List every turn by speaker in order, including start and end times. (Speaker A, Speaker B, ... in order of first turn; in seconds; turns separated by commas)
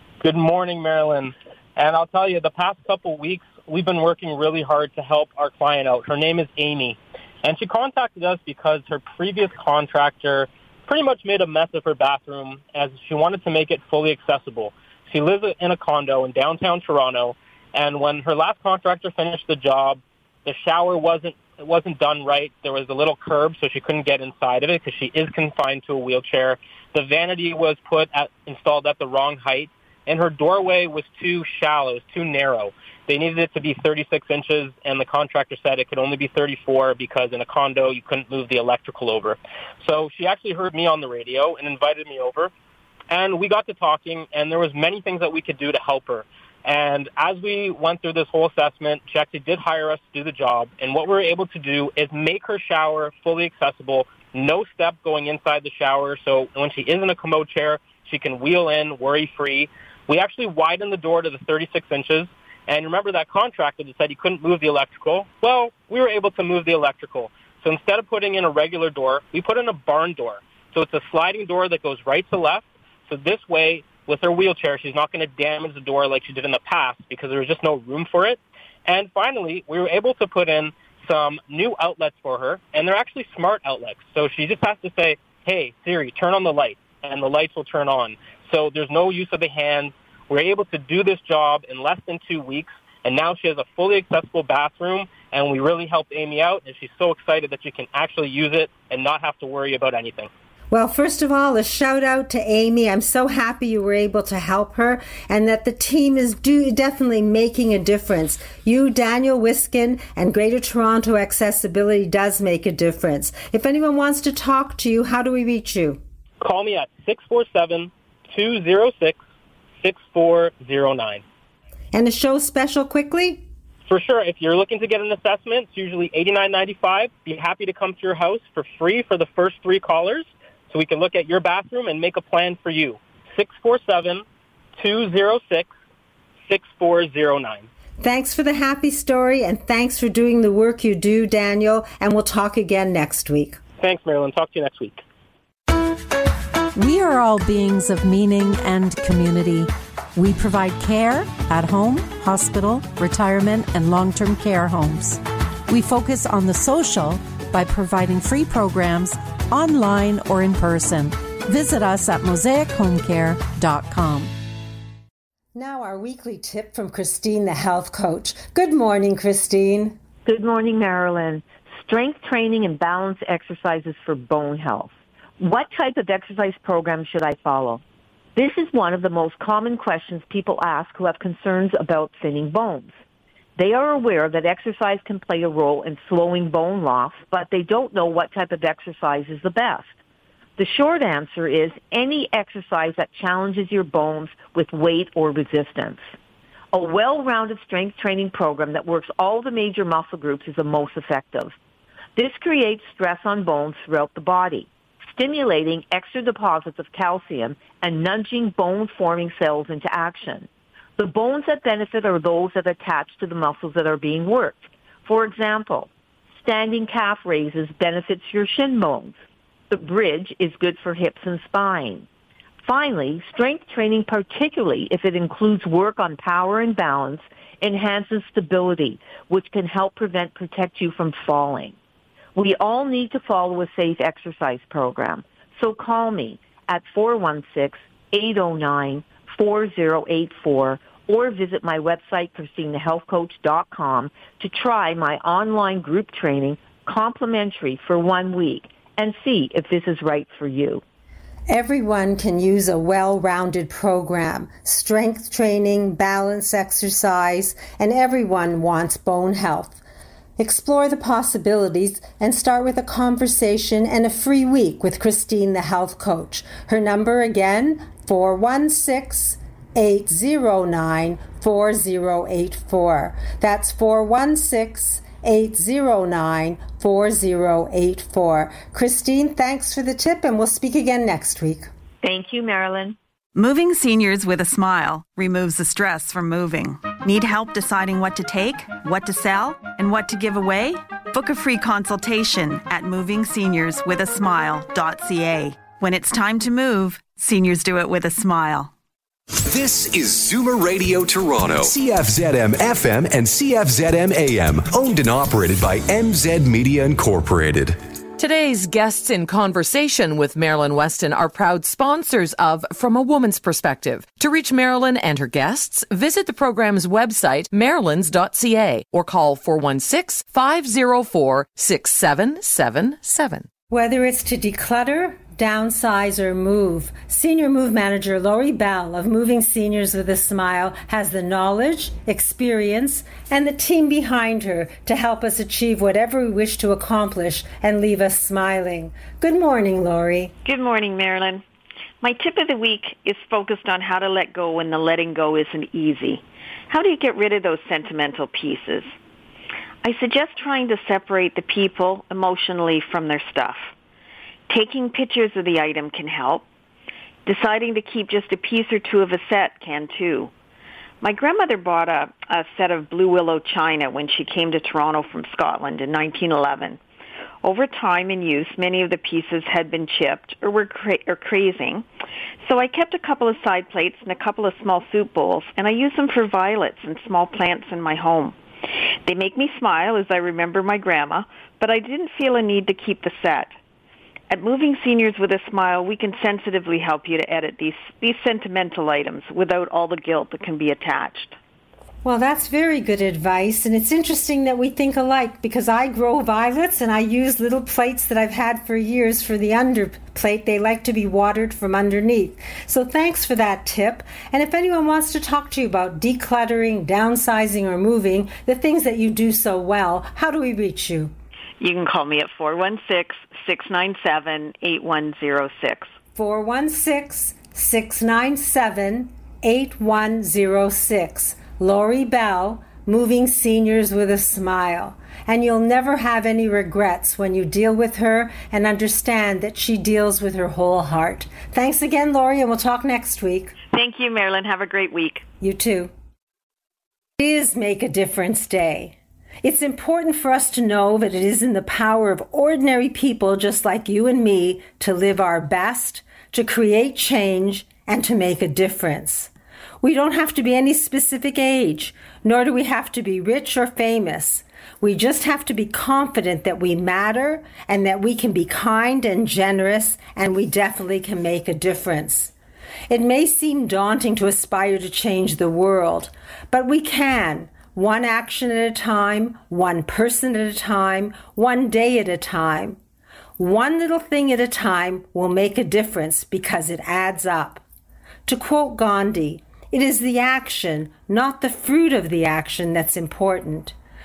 Speaker A: 0.2-42.5, Speaker A: 43.1-100.3, Speaker B: 100.7-116.0, Speaker A: 116.4-119.2, Speaker A: 119.8-121.2, Speaker B: 121.9-123.5, Speaker A: 123.9-134.2, Speaker A: 134.8-135.7, Speaker A: 136.4-137.7, Speaker B: 138.0-143.6, Speaker A: 143.8-145.0, Speaker C: 146.8-164.3, Speaker B: 165.5-170.0, Speaker D: 170.2-177.8, Speaker D: 178.4-183.0, Speaker D: 183.6-189.9, Speaker D: 190.6-196.0, Speaker D: 196.7-201.6, Speaker D: 202.2-219.2, Speaker D: 219.7-222.1, Speaker D: 222.6-231.8, Speaker D: 232.3-250.8, Speaker B: 251.5-259.8, Speaker B: 260.4-281.7, Speaker D: 282.0-283.0, Speaker E: 283.4-298.7, Speaker F: 299.4-307.8, Speaker G: 308.2-323.5, Speaker B: 323.7-340.4, Speaker H: 340.4-341.4, Speaker H: 342.0-348.9, Speaker H: 349.8-353.7, Speaker H: 354.5-356.5, Speaker H: 357.2-360.3, Speaker H: 361.0-366.8, Speaker H: 367.4-371.9, Speaker H: 372.4-378.4, Speaker H: 379.0-383.6, Speaker H: 384.3-391.4, Speaker B: 392.0-411.1, Speaker H: 411.6-415.9, Speaker B: 416.1-433.6, Speaker H: 433.7-435.3, Speaker B: 435.4-435.9, Speaker B: 437.2-449.3, Speaker B: 449.8-462.3, Speaker B: 462.9-472.8, Speaker B: 473.4-477.6, Speaker B: 478.3-483.8